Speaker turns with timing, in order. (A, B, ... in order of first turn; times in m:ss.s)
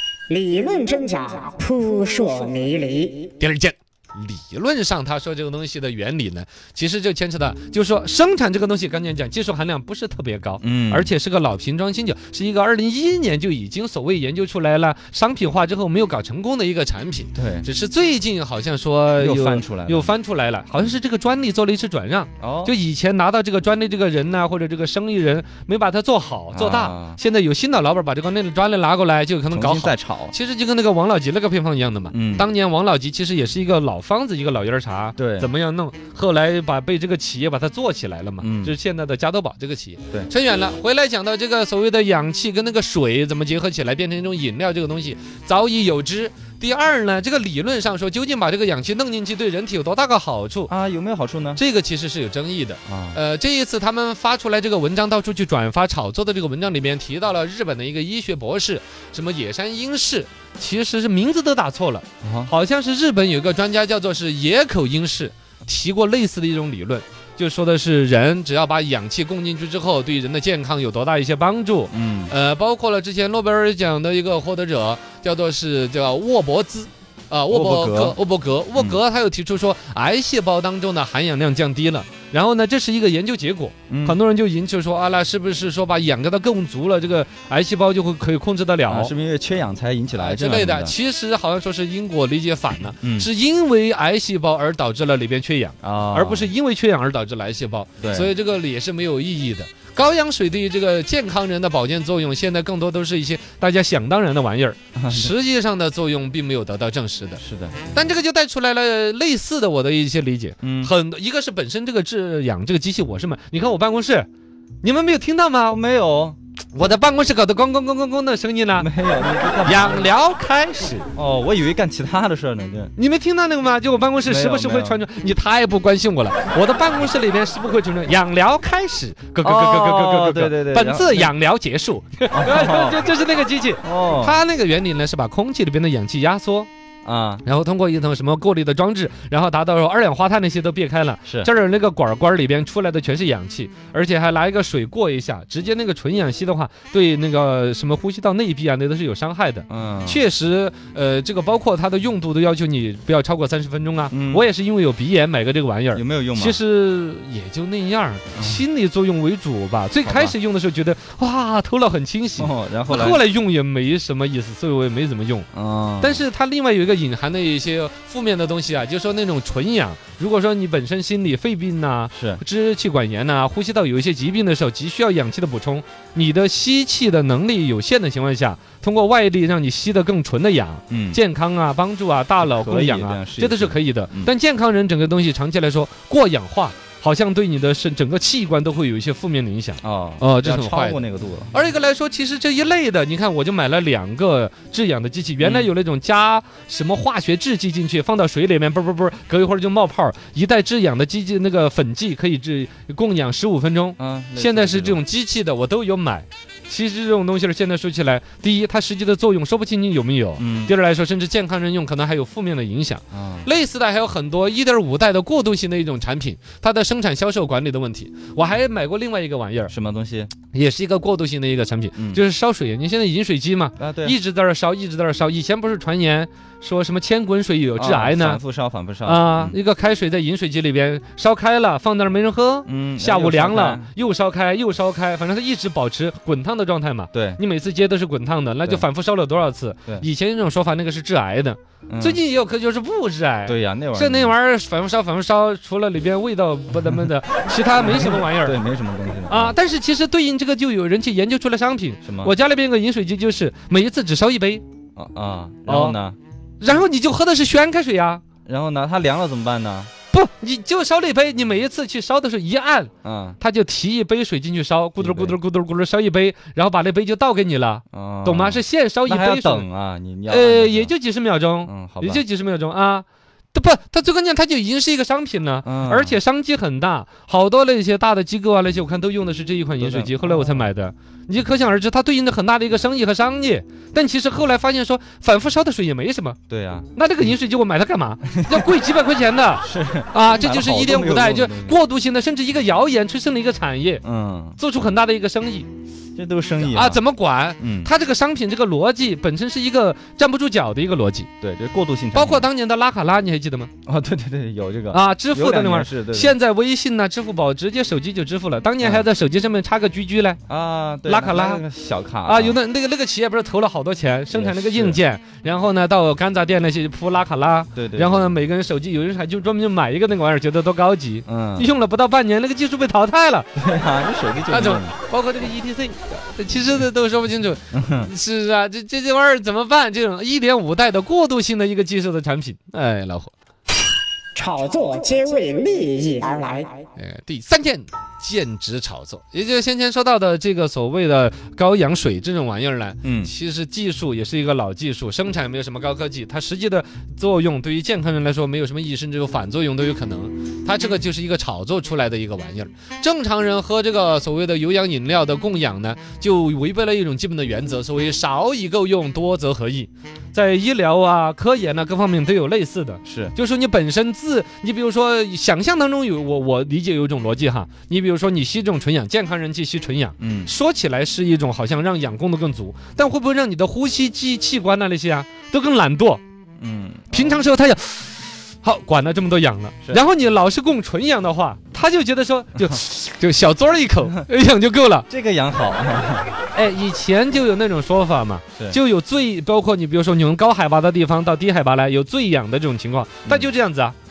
0:00.3-0:03.3 A
0:03.4-0:50.7 B
0:10.6-0:11.1 C
0:17.4-0:17.7 C
0:19.2-0:20.2 C
0:22.4-0:22.7 C
0:26.5-0:27.2 C
0:29.5-0:30.3 C
0:32.1-0:32.5 C
0:35.2-0:35.5 C
0:38.4-0:38.8 C
0:50.7-0:51.6 C
0:51.6-1:29.1 B
0:52.9-0:53.2 C
1:02.2-1:02.5 C
1:11.9-1:12.3 C
1:17.5-1:18.2 C
1:23.9-1:24.2 C
1:28.9-1:31.0 C
1:30.2-1:54.3 B
1:33.0-1:33.3 C
1:35.8-1:36.5 C
1:38.0-1:38.3 C
1:45.0-1:45.3 C
1:47.4-1:47.8 C
1:50.6-1:50.9 C
1:54.8-1:55.8 B
1:55.7-1:56.4 C
1:56.8-1:58.9 B
1:58.8-2:00.1 C
1:59.6-2:01.1 B
2:01.2-2:02.9 C
2:03.0-2:16.7 B
2:04.2-2:05.0 C
2:09.4-2:11.3 C
2:12.3-2:13.0 C
2:13.8-2:14.4 C
2:17.0-2:17.4 C
2:17.4-2:45.5 B
2:21.3-2:21.5 C
2:29.7-2:30.2 C
2:34.1-2:34.5 C
2:35.9-2:36.6 C
2:38.4-2:38.6 C
2:40.0-2:40.4 C
2:42.4-2:43.2 C
2:45.5-2:46.2 C
2:46.0-3:39.7 B
2:52.1-2:52.4 C
3:00.9-3:01.2 C
3:02.4-3:04.3 C
3:09.8-3:11.5 C
3:15.4-3:15.7 C
3:24.0-3:25.0 C
3:30.4-3:30.7 C
3:33.1-3:33.5 C
3:39.7-3:40.3 C
3:40.5-3:48.4 B
3:42.0-3:42.2 C
3:43.8-3:44.2 C
3:47.8-3:49.6 C
3:49.0-4:08.6 B
3:52.7-3:53.9 C
3:57.1-3:57.4 C
4:01.9-4:02.2 C
4:03.5-4:04.4 C
4:07.8-4:09.6 C
4:09.3-4:14.6 B
4:12.0-4:12.3 C
4:15.0-4:16.2 C
4:15.7-4:16.0 B
4:16.6-4:18.2 B
4:18.5-4:19.9 C
4:20.1-4:29.7 B
4:23.0-4:23.4 C
4:25.0-4:25.4 C
4:27.9-4:30.9 C
4:30.3-4:46.4 B
4:31.6-4:32.2 C
4:35.6-4:36.2 C
4:39.8-4:40.7 C
4:46.5-4:46.9 C
4:46.9-4:54.0 B
4:49.6-4:51.8 C
4:54.0-4:54.6 C
4:54.6-4:55.7 B
4:56.2-4:57.0 C
4:56.6-5:01.3 B
4:57.6-4:57.9 C
5:01.4-5:02.5 C
5:02.1-5:03.7 B
5:03.9-5:06.4 C
5:04.9-5:10.4 B
5:08.8-5:09.1 C
5:10.5-5:12.6 C
5:11.0-5:11.6 B
5:12.2-5:23.5 B
5:14.3-5:15.0 C
5:17.8-5:18.4 C
5:21.3-5:21.7 C
5:23.6-5:24.9 C
5:24.5-5:33.3 B
5:27.7-5:28.1 C
5:34.4-5:36.8 A
5:37.0-6:16.2 B
5:43.0-5:43.3 C
6:03.1-6:03.3 C
6:10.2-6:10.5 C
6:16.6-6:17.5 C
6:17.1-6:25.1 B
6:25.1-6:26.3 C
6:26.5-6:34.0 B
6:33.3-6:33.5 C